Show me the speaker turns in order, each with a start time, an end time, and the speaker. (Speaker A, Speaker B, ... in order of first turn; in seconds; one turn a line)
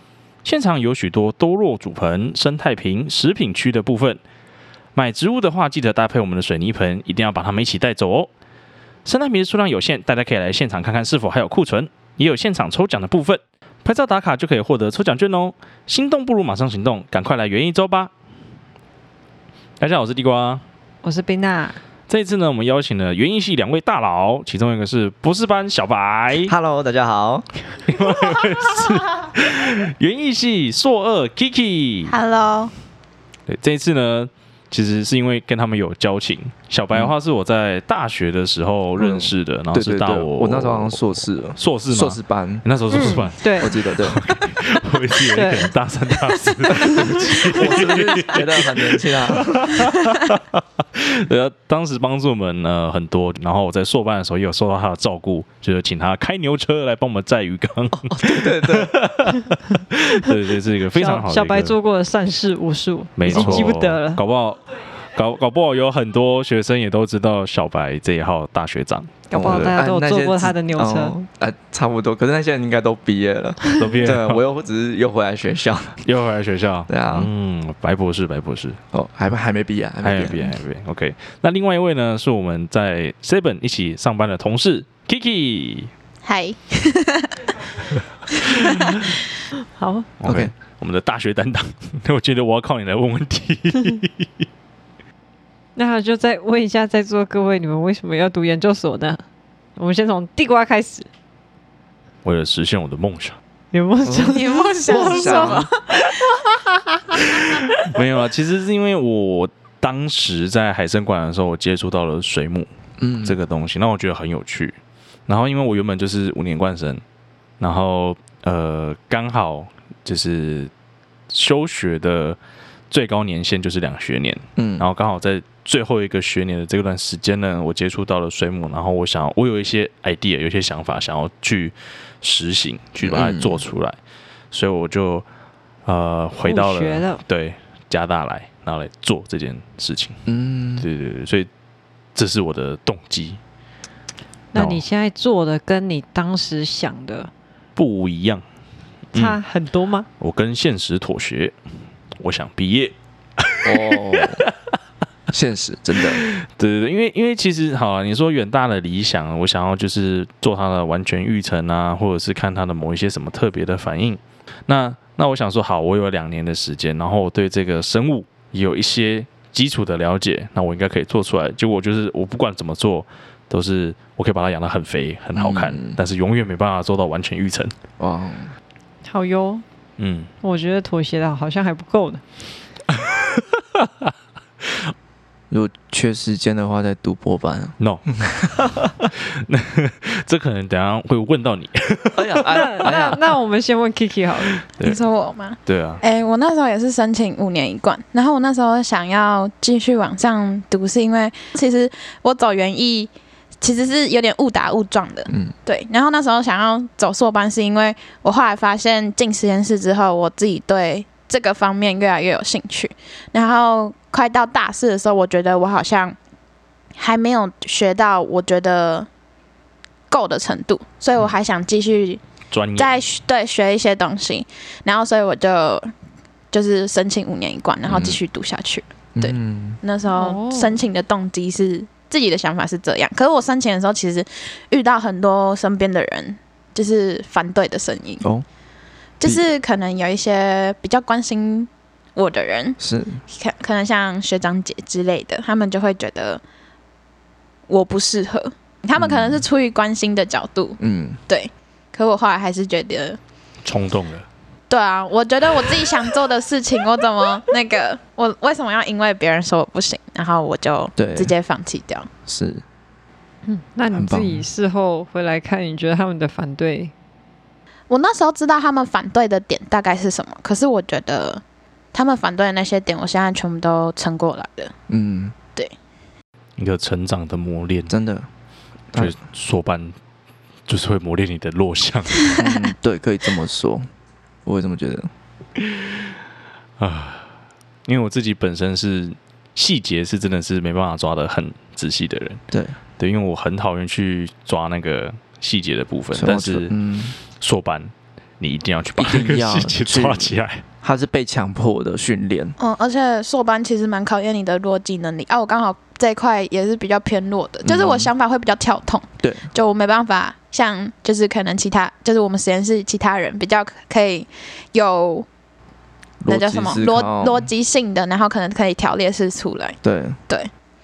Speaker A: 0.4-4.2
Speaker A: 4.9-8.3
Speaker A: 9.0-18.1
Speaker A: 19.8-20.6
Speaker B: 21.0-21.8
Speaker A: 22.1-26.5
Speaker C: 26.5-27.5
Speaker A: 27.9-32.1
Speaker D: 32.1-32.7
Speaker A: 33.5-50.4
Speaker C: 39.0-44.2
Speaker B: 42.9-43.7
Speaker B: 45.3-45.7
Speaker C: 46.8-49.8
Speaker A: 50.9-61.8
Speaker C: 58.0-59.0
Speaker B: 60.9-64.2
Speaker A: 63.2-69.7
Speaker C: 63.3-63.7
Speaker B: 69.3-71.2
Speaker C: 69.3-76.0
Speaker A: 73.7-74.4
Speaker A: 76.0-78.8
Speaker C: 76.9-77.3
Speaker C: 78.9-80.5
Speaker A: 80.0-85.9
Speaker D: 86.2-87.5
Speaker A: 88.5-88.9
Speaker B: 89.7-90.1
Speaker A: 90.2-94.3
Speaker C: 90.2-90.5
Speaker B: 95.7-99.2
Speaker B: 99.8-101.1
Speaker A: 102.2-103.4
Speaker B: 103.7-105.7
Speaker C: 104.0-105.7
Speaker D: 104.3-106.2
Speaker A: 107.8-112.7
Speaker C: 113.0-113.4
Speaker A: 113.2-117.0
Speaker A: 117.6-120.7
Speaker A: 121.3-122.4
Speaker A: 122.9-134.0
Speaker C: 124.6-124.8
Speaker C: 133.0-133.6
Speaker A: 134.5-135.2
Speaker A: 135.8-140.2
Speaker B: 136.4-137.2
Speaker C: 140.3-140.8
Speaker A: 140.8-141.5
Speaker A: 142.1-143.4
Speaker B: 144.5-147.3
Speaker A: 144.5-144.8
Speaker A: 147.8-148.4
Speaker A: 149.1-149.4
Speaker B: 149.1-150.1
Speaker A: 150.2-151.5
Speaker A: 152.2-154.4
Speaker C: 153.6-154.4
Speaker C: 155.3-156.2
Speaker A: 156.2-177.7
Speaker C: 175.3-176.0
Speaker C: 178.0-178.5
Speaker B: 179.0-179.6
Speaker A: 180.0-180.3
Speaker B: 180.4-182.2
Speaker A: 182.9-184.1
Speaker A: 184.6-184.9
Speaker C: 185.5-188.5
Speaker A: 187.8-188.0
Speaker A: 189.0-192.9
Speaker C: 192.1-193.2
Speaker B: 192.5-194.6
Speaker A: 194.6-195.0
Speaker D: 194.8-203.1
Speaker A: 195.6-196.0
Speaker D: 203.6-216.2
Speaker D: 216.9-219.1
Speaker D: 220.1-222.2
Speaker A: 222.5-222.9
Speaker D: 222.8-225.9
Speaker D: 226.5-238.3
Speaker C: 227.8-228.2
Speaker C: 229.2-229.8
Speaker B: 230.1-230.8
Speaker D: 239.2-242.8
Speaker C: 242.8-243.2
Speaker D: 243.3-246.4
Speaker D: 247.7-253.2
Speaker C: 249.0-249.4
Speaker C: 250.8-251.2
Speaker A: 253.6-254.2
Speaker D: 254.7-262.1
Speaker C: 261.0-261.3
Speaker C: 262.3-262.6
Speaker B: 263.4-266.9
Speaker C: 263.9-264.4
Speaker D: 267.9-271.4
Speaker D: 271.9-274.7
Speaker C: 274.9-275.3
Speaker A: 276.6-277.9
Speaker C: 277.9-278.3
Speaker A: 278.9-279.9
Speaker A: 280.7-282.3
Speaker C: 282.4-283.9
Speaker C: 284.4-285.1
Speaker A: 285.6-286.0
Speaker A: 286.8-287.3
Speaker A: 287.9-292.4
Speaker C: 292.5-292.8
Speaker A: 293.0-300.6
Speaker C: 296.1-297.1
Speaker C: 299.0-302.6
Speaker D: 302.6-315.3
Speaker C: 307.6-308.1
Speaker C: 309.2-309.5
Speaker C: 316.2-317.5
Speaker D: 316.3-319.8
Speaker C: 319.8-320.2